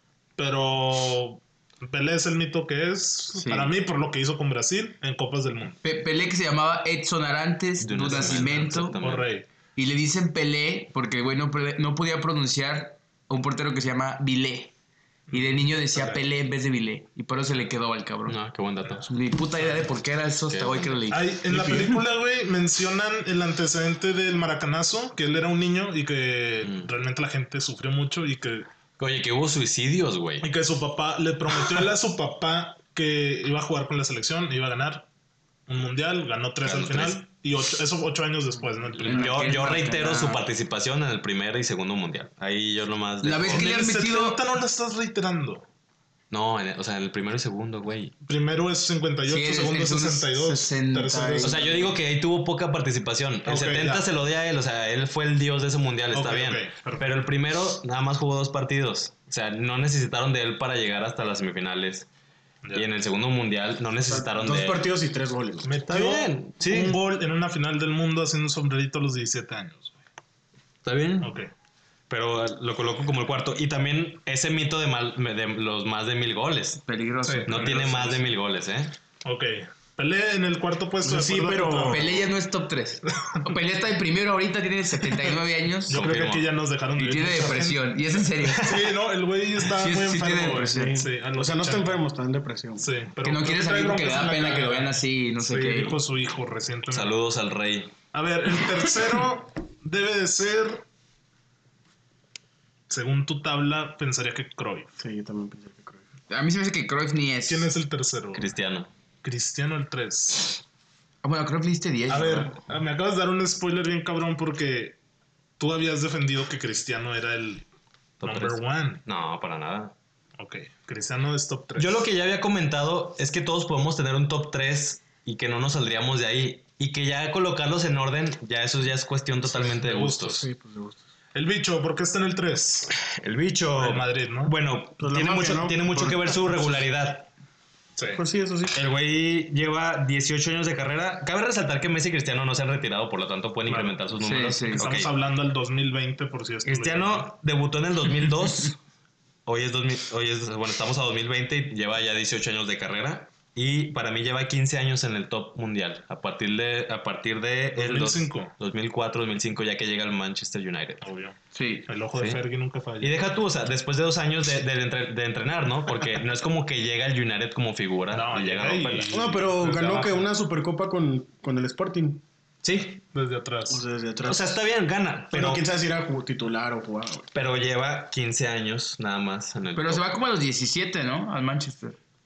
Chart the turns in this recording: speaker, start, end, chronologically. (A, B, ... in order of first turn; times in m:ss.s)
0:00.4-0:05.8 A
0:03.4-0:03.7 B
0:05.8-0:09.0 B
0:07.8-0:09.3 C
0:09.0-0:09.5 A
0:09.8-0:14.7 B
0:15.3-0:16.2 A
0:15.3-0:18.4 B
0:18.3-0:19.1 C
0:19.0-0:21.8 B
0:20.5-0:21.0 C
0:21.1-0:28.7 A
0:21.5-0:21.9 D
0:26.6-0:26.9 C
0:29.0-0:30.5 C
0:30.4-0:35.1 A
0:35.7-0:39.5 A
0:36.6-0:37.2 C
0:39.0-0:43.7 C
0:39.0-0:40.4 B
0:43.2-0:44.4 B
0:43.5-0:45.6 A
0:46.3-0:48.2 C
0:48.2-0:51.8 A
0:49.3-0:51.9 B
0:51.4-1:02.1 C
0:53.5-0:54.0 A
0:56.1-0:57.1 A
1:02.7-1:04.8 C
1:04.0-1:05.8 D
1:05.6-1:10.0 A
1:05.9-1:07.0 C
1:10.8-1:11.4 C
1:11.2-1:11.5 A
1:12.1-1:16.8 C
1:16.8-1:17.6 B
1:17.2-1:18.3 A
1:17.5-1:18.9 C
1:19.2-1:22.3 A
1:21.0-1:22.1 D
1:21.9-1:26.0 B
1:23.2-1:23.5 A
1:25.9-1:27.9 A
1:25.9-1:26.5 C
1:27.0-1:28.8 B
1:28.6-1:32.0 A
1:29.8-1:31.0 B
1:30.5-1:32.9 D
1:32.8-1:37.2 A
1:33.2-1:36.0 B
1:36.9-1:37.9 C
1:38.1-1:40.8 A
1:42.9-1:44.9 A
1:45.0-1:46.0 D
1:46.3-1:47.7 B
1:47.5-1:48.5 A
1:48.3-1:48.9 C
1:49.2-1:50.6 A
1:51.2-1:52.6 B
1:52.1-1:55.0 A
1:55.6-1:57.7 A
1:58.2-1:59.9 C
1:58.2-1:59.0 A
2:00.4-2:02.1 A
2:01.8-2:10.5 C
2:09.5-2:10.5 A
2:10.4-2:11.0 D
2:11.3-2:12.9 A
2:13.0-2:17.3 C
2:13.8-2:14.6 A
2:15.0-2:16.7 D
2:18.0-2:18.2 A
2:18.2-2:18.8 D
2:18.7-2:25.1 C
2:23.7-2:24.0 A
2:24.2-2:24.8 B
2:24.8-2:27.3 A
2:26.6-2:28.8 C
2:29.5-2:41.1 C
2:37.8-2:38.5 A
2:41.0-2:41.4 A
2:41.5-2:41.9 B
2:41.9-2:43.2 A
2:42.2-2:42.4 C
2:43.0-2:49.1 C
2:48.1-2:50.3 A
2:49.1-2:52.2 D
2:52.6-2:53.0 C
2:53.1-2:53.8 A
2:53.7-2:54.6 D
2:54.2-2:55.6 C
2:55.3-2:57.3 D
2:57.3-3:00.0 C
2:59.8-3:02.0 B